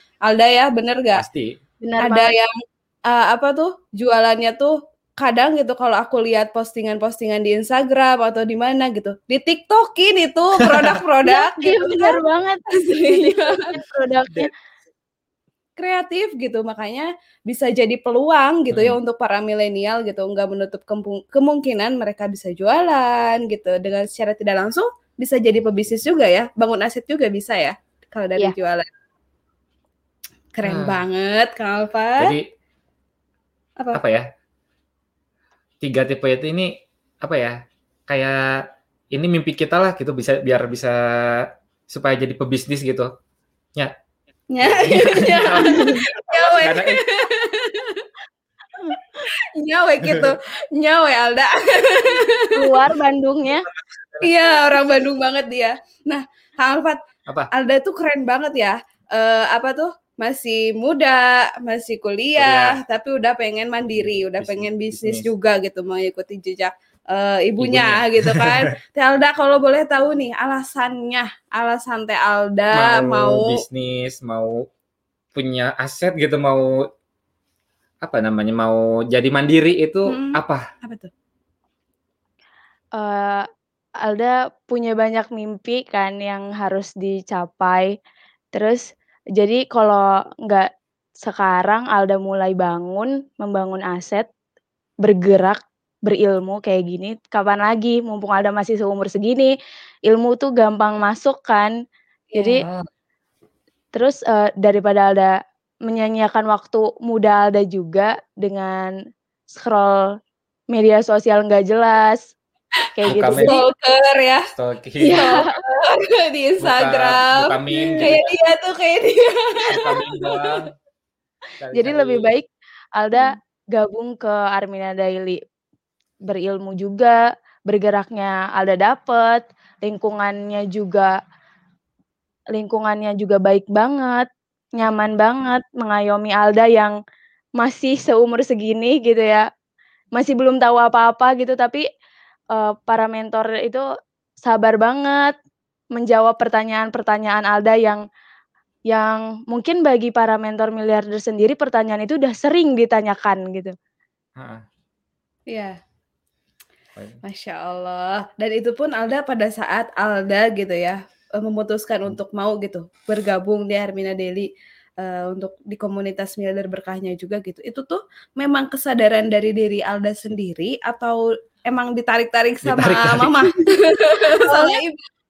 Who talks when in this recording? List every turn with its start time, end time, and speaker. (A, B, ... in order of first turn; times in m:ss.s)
0:00.2-0:01.2 A
0:01.1-0:01.6 B
0:01.8-0:02.3 C
0:02.0-0:02.5 A
0:03.1-0:12.2 A
0:11.2-0:14.5 C
0:12.7-0:13.6 A
0:15.8-0:28.9 A
0:18.7-0:19.0 B
0:30.5-0:32.3 A
0:30.6-0:31.0 B
0:32.2-0:32.4 B
0:33.9-0:34.3 B
0:35.8-0:37.6 B
0:38.1-0:43.1 B
0:44.5-0:48.0 A
0:44.6-0:47.0 B
0:45.5-0:46.1 C
0:49.3-0:52.8 A
0:50.0-0:50.3 B
0:52.5-0:53.6 C
0:53.8-0:54.3 B
0:54.2-0:57.0 A
0:57.5-1:13.6 A
1:02.4-1:02.8 B
1:04.0-1:05.3 B
1:07.6-1:08.6 B
1:12.7-1:14.6 B
1:15.3-1:16.7 B
1:18.0-1:20.6 B
1:20.0-1:21.1 A
1:23.0-1:23.5 C
1:24.0-1:27.9 C
1:28.5-1:28.8 C
1:29.4-1:30.7 C
1:31.2-1:34.2 C
1:35.0-1:39.5 C
1:40.1-1:41.7 C
1:42.3-1:42.6 A
1:42.3-1:42.6 C
1:42.6-1:42.9 B
1:43.9-1:45.4 C
1:45.9-1:48.9 C
1:49.5-1:50.1 C
1:50.7-1:52.3 C
1:52.9-1:53.6 C
1:53.1-1:53.6 B
1:53.4-1:54.4 A
1:54.5-1:55.4 B
1:55.0-1:55.5 C
1:55.2-2:00.5 A
1:56.6-1:58.2 B
1:59.7-2:00.7 B
2:01.6-2:02.3 B
2:01.7-2:05.4 C
2:06.3-2:11.1 C
2:12.5-2:16.9 C
2:17.6-2:19.4 C
2:20.2-2:21.8 C
2:22.5-2:23.8 C
2:24.4-2:25.3 C
2:25.9-2:28.0 C
2:28.9-2:33.7 C
2:34.4-2:34.6 B
2:35.5-2:35.8 A
2:37.2-2:44.5 A
2:45.0-2:55.0 A
2:52.6-2:53.5 B
2:54.3-2:54.8 C